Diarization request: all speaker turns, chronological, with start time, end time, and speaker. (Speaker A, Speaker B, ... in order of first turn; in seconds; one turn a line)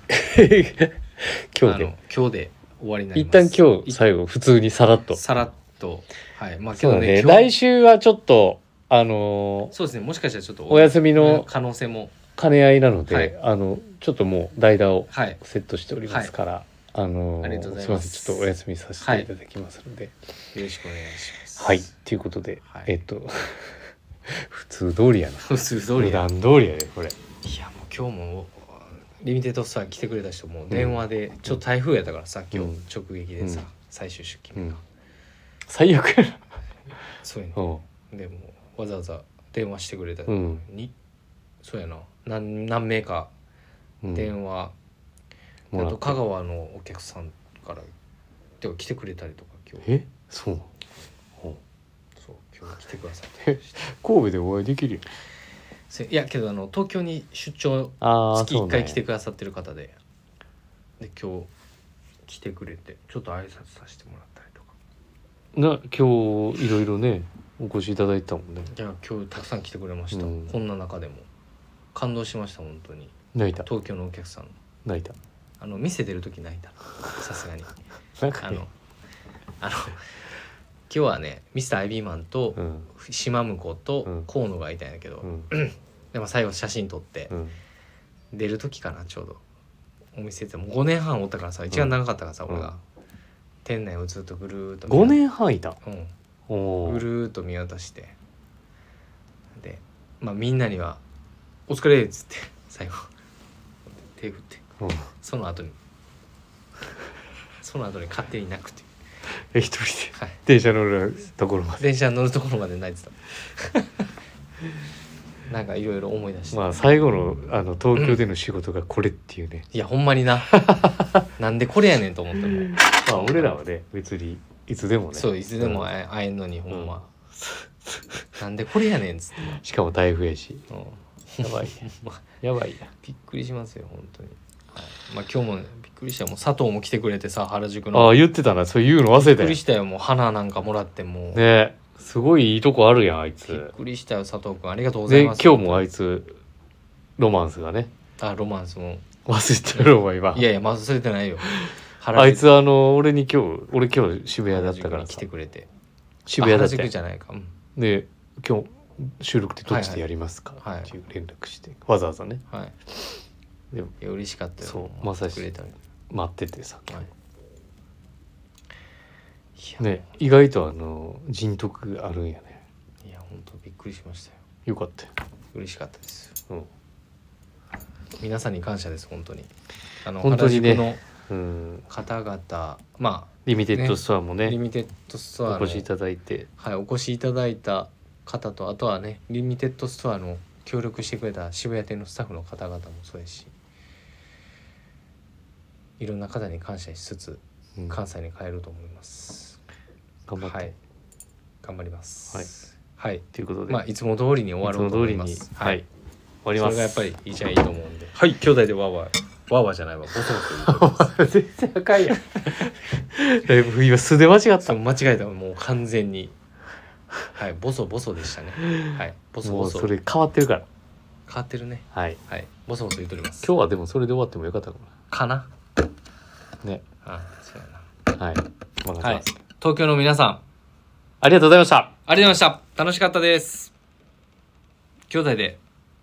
Speaker A: 0.1-1.9
Speaker B: 1.6-4.0
Speaker A: 3.1-5.2
Speaker B: 5.2-7.5
Speaker A: 6.8-9.7
Speaker B: 9.7-12.2
Speaker A: 10.7-11.5
Speaker A: 12.4-20.1
Speaker B: 13.1-13.3
Speaker B: 15.1-15.4
Speaker B: 17.4-18.5
Speaker B: 19.0-19.3
Speaker B: 20.5-21.9
Speaker A: 21.6-27.2
Speaker B: 25.4-26.3
Speaker B: 27.4-34.8
Speaker A: 30.7-31.6
Speaker A: 32.5-32.8
Speaker A: 35.7-36.4
Speaker B: 37.2-40.9
Speaker A: 37.5-37.8
Speaker A: 40.3-40.6
Speaker B: 41.6-43.3
Speaker A: 44.0-44.3
Speaker B: 44.1-44.7
Speaker A: 45.7-46.2
Speaker B: 45.8-47.9
Speaker B: 48.6-49.9
Speaker A: 49.8-50.7
Speaker B: 52.2-53.8
Speaker A: 53.4-55.1
Speaker B: 55.9-60.0
Speaker A: 58.0-59.0
Speaker B: 61.0-61.5
Speaker B: 62.3-64.7
Speaker A: 65.5-68.7
Speaker B: 68.7-71.3
Speaker A: 70.1-70.5
Speaker B: 71.9-74.6
Speaker A: 73.3-73.7
Speaker A: 74.8-75.2
Speaker B: 75.6-77.7
Speaker A: 78.2-78.6
Speaker B: 78.4-78.7
Speaker B: 79.6-80.0
Speaker B: 80.9-87.3
Speaker A: 82.6-82.9
Speaker A: 85.2-85.5
Speaker A: 87.3-87.6
Speaker B: 88.3-89.4
Speaker B: 90.2-92.8
Speaker A: 92.5-92.8
Speaker B: 93.7-95.2
Speaker A: 94.9-95.8
Speaker B: 95.8-96.1
Speaker A: 96.5-97.0
Speaker B: 96.8-98.2
Speaker B: 99.5-101.0
Speaker B: 101.7-103.1
Speaker B: 104.0-104.7
Speaker A: 104.8-105.1
Speaker B: 105.2-105.8
Speaker B: 107.6-108.9
Speaker A: 109.5-111.8
Speaker B: 111.8-114.0
Speaker B: 115.5-116.8
Speaker A: 116.5-119.7
Speaker B: 118.0-118.2
Speaker B: 119.7-120.6
Speaker A: 120.5-121.3
Speaker B: 121.4-123.5
Speaker A: 122.5-125.9
Speaker B: 125.1-127.0
Speaker A: 126.7-128.3
Speaker B: 128.4-129.5
Speaker A: 129.4-130.7
Speaker B: 130.7-132.2
Speaker A: 131.4-132.9
Speaker B: 133.0-138.2
Speaker A: 137.9-139.6
Speaker B: 139.2-141.4
Speaker A: 141.3-143.7
Speaker B: 143.5-145.9
Speaker A: 145.1-146.4
Speaker A: 147.2-147.9
Speaker B: 148.2-149.1
Speaker A: 149.3-150.5
Speaker B: 149.8-152.5
Speaker A: 151.4-155.2
Speaker B: 154.5-155.7
Speaker A: 156.3-156.9
Speaker B: 156.4-157.5
Speaker A: 157.8-162.4
Speaker B: 159.7-160.1
Speaker B: 160.6-160.9
Speaker B: 164.0-165.8
Speaker A: 164.6-165.5
Speaker A: 166.1-167.0
Speaker B: 169.6-170.1
Speaker A: 169.8-172.6
Speaker B: 173.0-174.4
Speaker A: 174.7-175.1
Speaker B: 175.5-176.4
Speaker B: 178.2-179.5
Speaker B: 180.0-181.0
Speaker A: 180.2-181.8
Speaker B: 181.9-185.9
Speaker A: 183.4-184.6
Speaker A: 185.5-186.5
Speaker B: 186.6-193.5
Speaker B: 196.0-199.6
Speaker A: 200.3-200.7
Speaker B: 200.4-200.8
Speaker B: 201.6-205.8
Speaker A: 203.3-203.8
Speaker A: 204.6-205.8
Speaker A: 206.4-207.1
Speaker B: 206.6-211.2
Speaker A: 210.6-214.8
Speaker B: 212.0-212.7
Speaker B: 214.6-216.3
Speaker B: 217.3-219.9
Speaker A: 218.6-220.7
Speaker B: 221.3-223.5
Speaker A: 221.9-222.2
Speaker A: 223.4-224.9
Speaker B: 225.1-225.5
Speaker B: 227.0-227.9
Speaker A: 228.1-229.3
Speaker B: 229.0-230.4
Speaker A: 231.2-231.9
Speaker B: 232.1-233.7
Speaker B: 235.1-235.6